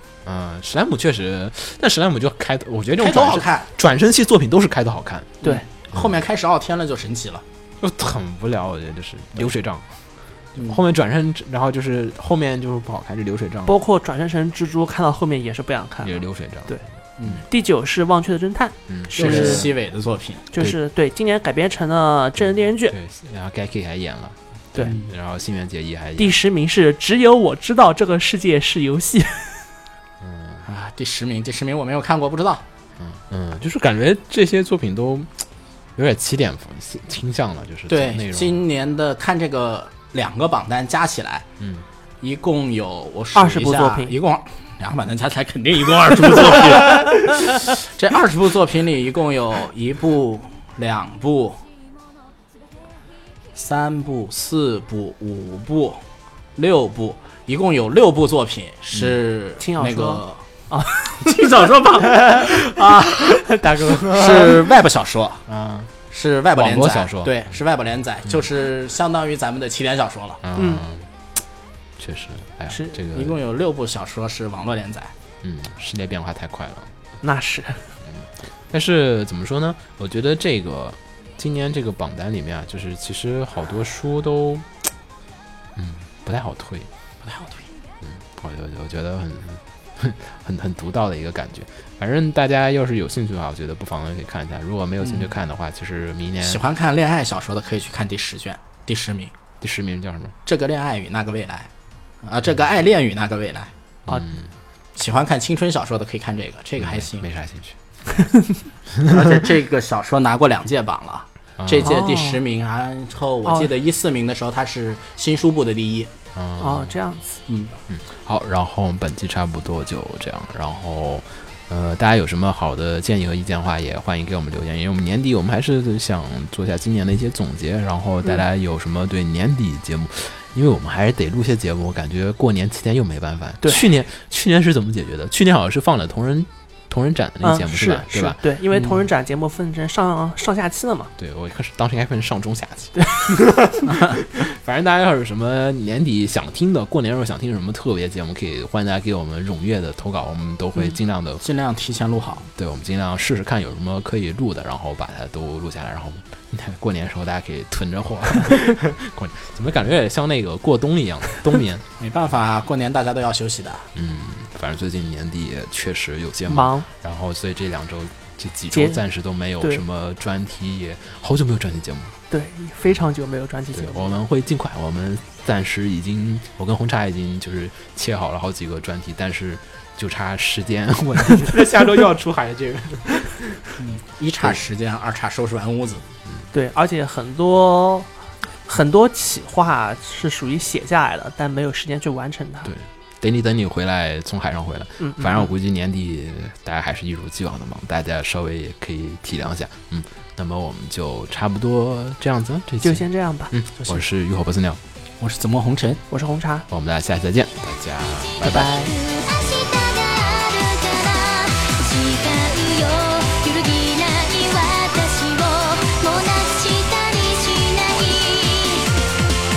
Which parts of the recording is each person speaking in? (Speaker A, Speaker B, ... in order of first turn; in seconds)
Speaker A: 0.2-5.4, 7.8-9.9, 10.5-13.7, 16.0-17.4, 18.9-19.7, 22.9-26.4, 30.2-30.6, 33.0-38.6, 41.6-41.9, 58.9-59.2, 63.6-64.6, 65.5-65.9, 66.5-67.4, 70.4-71.1, 72.0-73.4, 75.4-76.9, 78.0-84.9, 85.8-86.9, 88.0-96.6, 99.6-100.3, 104.1-104.5, 106.8-107.8, 108.9-109.4, 111.6-111.9, 116.3-117.0, 117.9-138.5, 141.2-151.4, 152.5-161.8, 163.9-172.2, 173.7-183.7, 192.6-204.8, 206.7-208.7
Speaker B: 3.0-3.7, 5.4-7.4, 17.2-17.4, 19.1-20.5, 24.8-25.1, 30.6-32.6, 37.9-41.5, 42.2-51.6, 53.5-56.0, 56.6-60.4, 61.0-65.5, 66.1-70.4, 73.1-75.1, 87.2-87.7, 95.0-95.3, 96.4-99.3, 100.4-101.7, 102.2-103.7, 105.0-107.3, 109.0-116.1, 117.5-117.8, 138.7-139.0, 151.4-152.5, 162.0-163.9, 183.8-186.0, 203.8-204.0, 205.2-206.0, 208.4-208.9
Speaker C: 13.7-16.8, 17.5-19.7, 20.5-23.0, 26.2-29.7, 43.3-44.2, 59.6-61.2, 70.5-70.8, 77.2-77.9, 111.8-112.4, 116.6-117.3, 137.4-141.1, 166.5-166.9, 168.7-169.0, 172.3-174.2, 186.5-188.1, 188.7-192.7, 195.0-195.4, 202.8-203.5, 206.1-206.7
Speaker D: 208.6-218.9